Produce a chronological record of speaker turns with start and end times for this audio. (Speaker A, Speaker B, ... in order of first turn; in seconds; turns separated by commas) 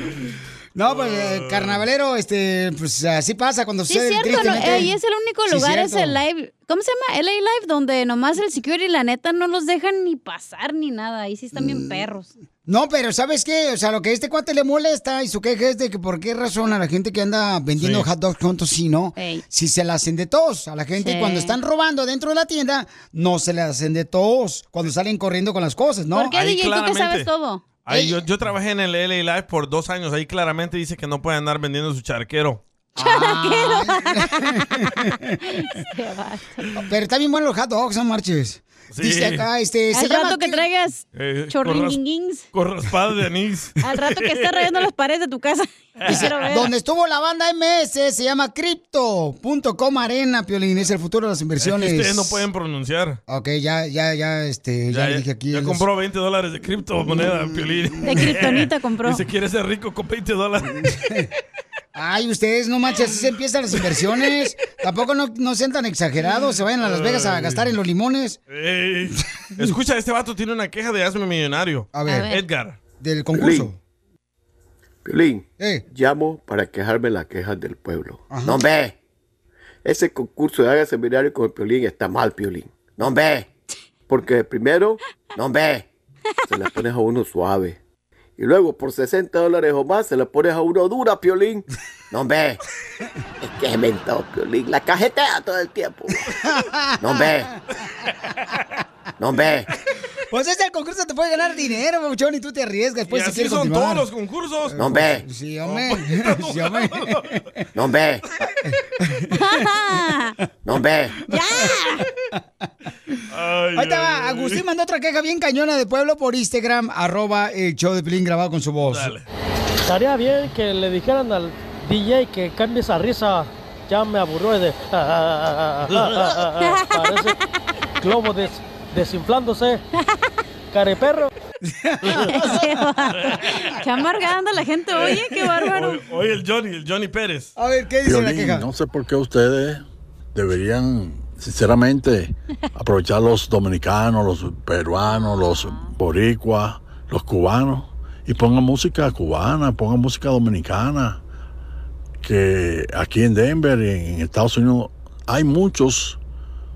Speaker A: 0.8-4.9, Speaker B: 0.8-1.8, Speaker C: 3.9-12.3, Speaker A: 5.5-6.2, Speaker A: 11.5-12.0, Speaker A: 12.7-26.3, Speaker B: 17.8-18.1, Speaker C: 19.2-19.4, Speaker C: 21.0-21.5, Speaker C: 26.1-27.6, Speaker B: 26.3-27.3, Speaker B: 27.8-32.6, Speaker A: 27.9-28.2, Speaker A: 33.0-35.4, Speaker C: 33.0-36.7, Speaker A: 36.8-40.6, Speaker B: 38.9-39.5, Speaker C: 39.9-42.4, Speaker B: 41.1-42.0, Speaker B: 42.5-44.8, Speaker C: 43.8-46.7, Speaker B: 46.0-46.3, Speaker A: 46.2-52.4, Speaker B: 51.6-53.2, Speaker A: 53.3-55.8, Speaker B: 54.9-61.0, Speaker A: 57.1-58.1, Speaker C: 58.0-59.2, Speaker A: 60.8-61.3, Speaker A: 61.9-68.4, Speaker B: 66.8-67.7, Speaker B: 68.5-72.8, Speaker A: 71.9-72.3, Speaker C: 72.0-72.4, Speaker A: 73.0-73.8, Speaker D: 73.3-73.7, Speaker D: 75.0-78.9, Speaker A: 75.6-75.8, Speaker A: 78.3-78.6, Speaker D: 79.8-83.4, Speaker D: 84.1-85.8, Speaker D: 86.5-87.8, Speaker D: 88.4-92.6, Speaker D: 93.4-96.2, Speaker A: 96.4-97.5, Speaker D: 97.0-97.5, Speaker D: 99.2-99.6, Speaker A: 100.3-104.1, Speaker B: 103.1-104.8, Speaker A: 104.7-107.6, Speaker D: 104.8-105.2, Speaker B: 105.6-107.4, Speaker D: 107.8-108.2, Speaker A: 109.0-109.3, Speaker C: 109.3-110.4, Speaker D: 110.7-111.1, Speaker C: 111.3-112.0, Speaker B: 113.3-114.6, Speaker A: 113.7-119.1, Speaker B: 118.9-119.2, Speaker E: 119.8-127.4, Speaker C: 126.6-127.0, Speaker E: 128.0-129.8, Speaker E: 130.7-131.3, Speaker A: 131.6-132.7, Speaker C: 132.1-136.0, Speaker B: 133.2-133.7, Speaker B: 134.9-137.5, Speaker A: 137.6-138.7, Speaker F: 138.0-151.2, Speaker C: 145.1-145.9, Speaker F: 152.2-156.2